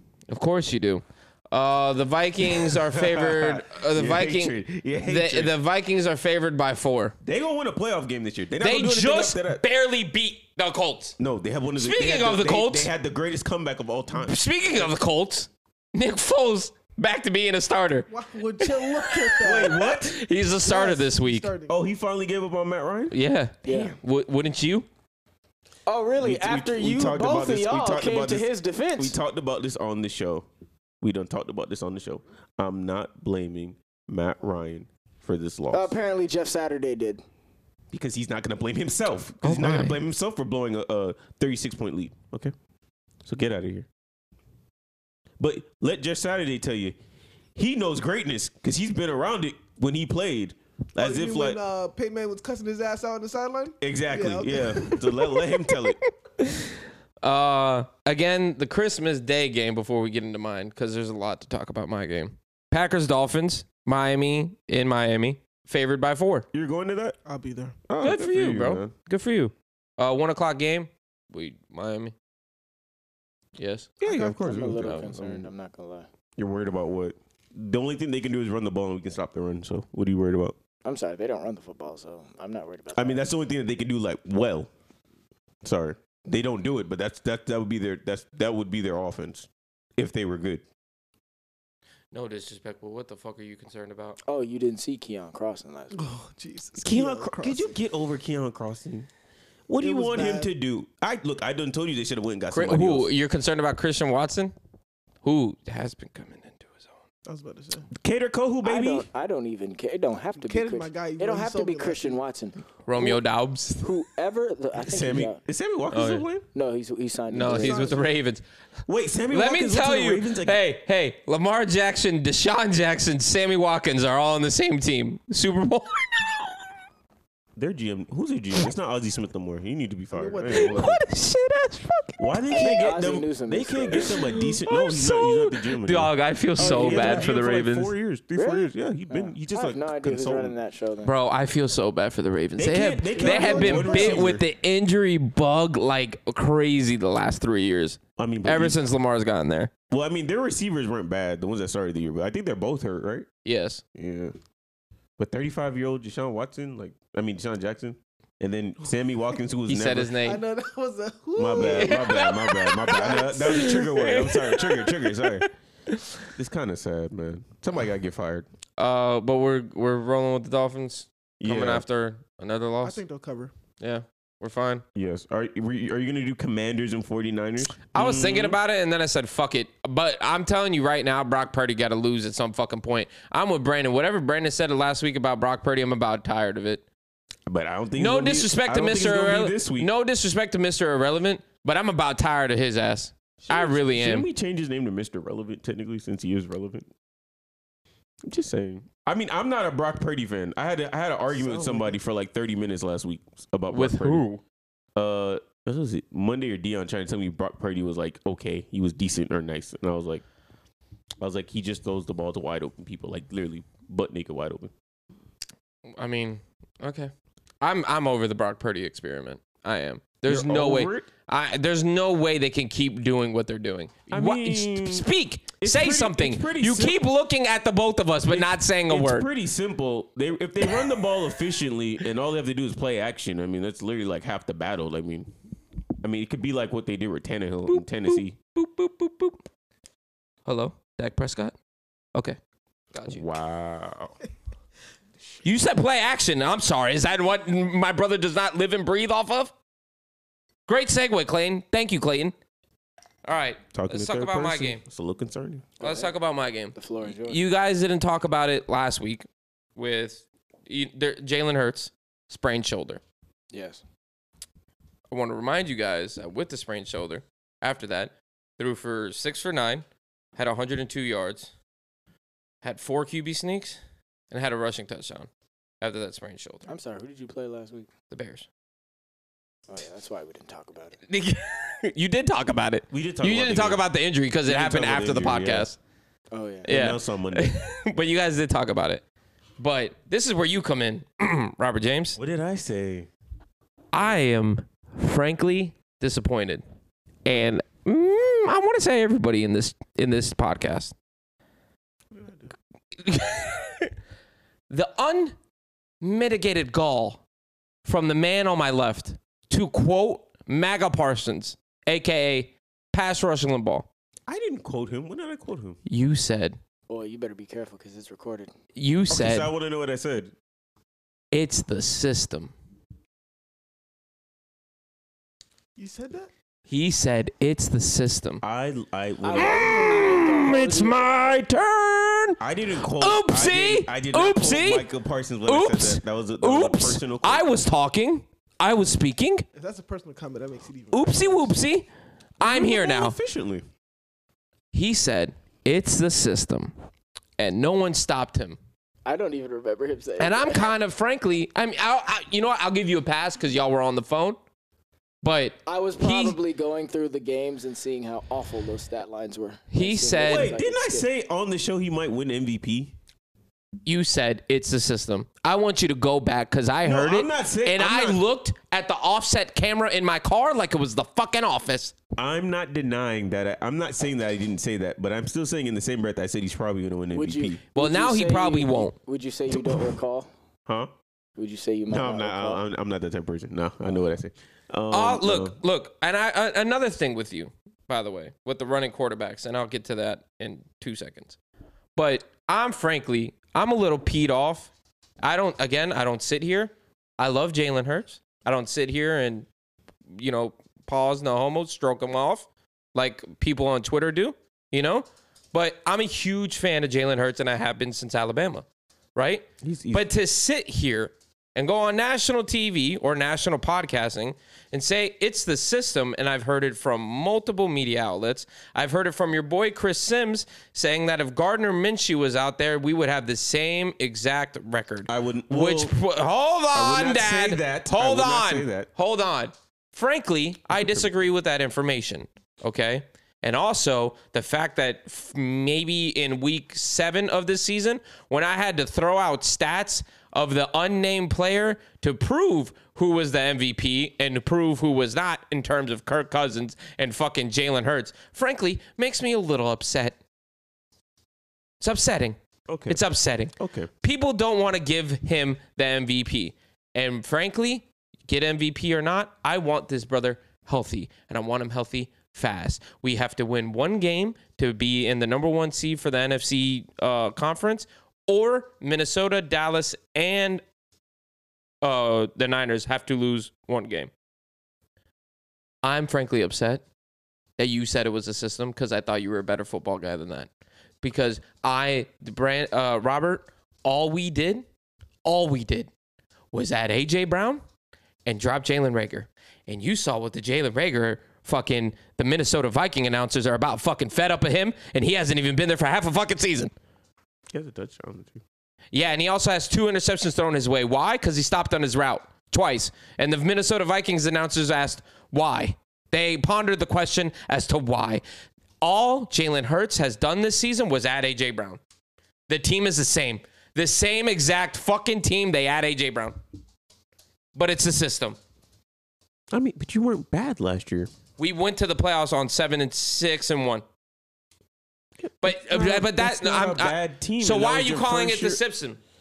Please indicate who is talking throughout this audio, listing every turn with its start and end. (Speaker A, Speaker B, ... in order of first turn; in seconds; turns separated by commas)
Speaker A: 0.3-7.2, Speaker B: 2.5-5.6, Speaker B: 7.2-9.7, Speaker A: 8.6-11.2, Speaker B: 11.2-14.9, Speaker A: 11.8-12.9, Speaker A: 14.2-18.1, Speaker C: 18.1-19.8, Speaker A: 18.6-21.5, Speaker B: 19.4-20.2, Speaker C: 20.6-21.8, Speaker B: 21.7-23.1, Speaker A: 23.1-24.9, Speaker D: 23.6-24.0, Speaker D: 25.9-29.2, Speaker B: 26.2-30.5, Speaker B: 31.0-36.0, Speaker D: 35.7-37.2, Speaker B: 37.9-42.5, Speaker A: 39.4-40.0, Speaker B: 43.2-43.9, Speaker B: 45.4-47.0, Speaker B: 47.5-51.6, Speaker C: 51.0-55.1, Speaker B: 53.8-56.0, Speaker A: 57.2-66.5, Speaker B: 66.5-67.2, Speaker C: 67.2-67.8, Speaker B: 67.9-68.9, Speaker A: 68.0-72.1, Speaker A: 73.6-74.0, Speaker B: 74.0-75.5, Speaker C: 74.1-74.3, Speaker D: 74.1-76.1, Speaker A: 74.8-75.1, Speaker B: 76.4-80.6, Speaker D: 80.8-83.2, Speaker B: 82.9-84.7, Speaker B: 85.6-90.6, Speaker A: 92.1-94.2, Speaker D: 94.2-96.0, Speaker C: 95.9-97.7, Speaker B: 96.8-99.1, Speaker B: 99.7-103.1, Speaker C: 99.8-100.5, Speaker A: 102.5-104.5, Speaker A: 105.2-106.9, Speaker C: 107.3-107.9, Speaker B: 108.0-109.1, Speaker D: 108.6-113.2, Speaker C: 110.4-112.2, Speaker A: 112.9-114.0, Speaker D: 113.8-115.4, Speaker B: 114.8-116.5, Speaker A: 115.9-116.2, Speaker D: 116.5-118.0, Speaker A: 117.3-118.4, Speaker C: 117.5-118.1, Speaker B: 118.9-120.6, Speaker A: 119.3-126.6, Speaker B: 127.6-131.0, Speaker C: 130.1-131.0, Speaker A: 130.6-132.2, Speaker B: 132.2-140.6, Speaker D: 132.5-134.1, Speaker A: 133.9-137.9, Speaker D: 136.6-137.2, Speaker C: 136.9-137.2, Speaker D: 138.3-141.1, Speaker A: 141.1-149.7, Speaker B: 142.6-144.4, Speaker C: 143.1-144.3, Speaker B: 148.2-148.8, Speaker B: 149.9-153.3, Speaker A: 153.4-153.8, Speaker B: 153.9-154.3, Speaker B: 155.2-160.2, Speaker A: 159.7-160.4, Speaker C: 160.2-162.3, Speaker B: 161.4-165.5, Speaker A: 161.6-166.2, Speaker C: 162.9-163.7, Speaker B: 166.3-168.5, Speaker A: 168.8-173.0, Speaker B: 171.4-171.8, Speaker C: 172.8-173.5, Speaker A: 173.8-174.8, Speaker B: 174.9-178.6, Speaker A: 177.9-186.8, Speaker B: 187.5-189.9, Speaker A: 188.0-194.3, Speaker B: 193.4-196.9, Speaker B: 198.2-204.2, Speaker C: 201.3-202.0, Speaker A: 203.7-204.4, Speaker B: 205.0-210.2, Speaker B: 211.2-214.7, Speaker A: 215.9-229.3, Speaker B: 220.3-221.1, Speaker B: 224.1-225.1, Speaker B: 225.6-227.0, Speaker B: 228.3-235.3, Speaker B: 236.0-238.4, Speaker A: 237.7-239.4, Speaker A: 240.5-241.5, Speaker A: 242.9-243.3, Speaker B: 243.1-244.2, Speaker A: 245.4-249.5, Speaker A: 250.7-252.3, Speaker A: 253.2-254.8, Speaker B: 253.7-255.7, Speaker D: 255.8-256.1, Speaker A: 255.8-259.2, Speaker D: 256.8-257.4, Speaker A: 259.8-263.0, Speaker D: 263.5-263.8, Speaker A: 265.1-269.9, Speaker A: 270.4-271.5, Speaker A: 272.6-273.8, Speaker A: 274.3-275.3, Speaker A: 275.8-276.7, Speaker D: 276.7-277.9, Speaker A: 278.1-278.5, Speaker D: 279.7-281.0, Speaker A: 281.1-285.8, Speaker B: 282.9-283.9, Speaker B: 284.5-285.7, Speaker D: 286.3-286.7, Speaker A: 286.6-289.0, Speaker B: 286.7-287.5, Speaker A: 289.6-292.2, Speaker B: 292.2-293.1, Speaker A: 293.9-296.6, Speaker A: 297.2-300.9, Speaker C: 302.1-302.4, Speaker A: 303.0-303.9, Speaker A: 304.7-305.4, Speaker A: 306.0-307.2, Speaker A: 307.9-313.9, Speaker B: 314.3-315.8, Speaker A: 315.9-316.6, Speaker D: 316.9-318.5, Speaker A: 318.8-319.5, Speaker B: 319.1-320.3, Speaker A: 321.3-322.5, Speaker C: 325.8-326.3, Speaker A: 326.7-328.4, Speaker B: 328.4-329.9, Speaker D: 329.2-331.1, Speaker A: 329.4-334.9, Speaker B: 332.4-337.5, Speaker A: 335.5-339.4, Speaker C: 339.6-341.6, Speaker A: 340.9-341.9, Speaker A: 342.4-343.2, Speaker B: 342.4-343.6, Speaker A: 344.7-346.7, Speaker A: 347.4-348.6, Speaker D: 349.1-350.7, Speaker A: 350.2-354.4, Speaker A: 355.2-356.4, Speaker D: 355.6-361.1, Speaker A: 359.7-360.5, Speaker B: 360.2-362.9, Speaker A: 363.9-371.9, Speaker B: 366.8-368.2, Speaker B: 372.2-377.6, Speaker D: 377.1-380.3, Speaker A: 377.7-378.9, Speaker D: 381.4-382.6, Speaker B: 381.9-385.6, Speaker A: 384.9-391.4, Speaker A: 391.9-399.5, Speaker A: 400.1-450.2, Speaker B: 409.6-410.1, Speaker B: 425.1-425.9, Speaker B: 426.7-428.9, Speaker B: 430.8-431.1, Speaker A: 451.8-452.4, Speaker B: 452.7-453.0, Speaker A: 452.9-470.6, Speaker B: 453.6-453.9, Speaker A: 471.8-474.1, Speaker A: 475.8-476.8, Speaker A: 477.6-480.5, Speaker A: 481.0-484.6, Speaker A: 485.2-485.9, Speaker A: 486.5-487.6, Speaker A: 488.3-496.7, Speaker B: 497.5-498.4, Speaker A: 498.9-508.2, Speaker A: 508.8-511.8, Speaker A: 512.5-516.4, Speaker A: 517.5-518.4, Speaker B: 519.5-521.1, Speaker A: 521.4-523.8, Speaker B: 525.2-528.6, Speaker A: 525.4-529.0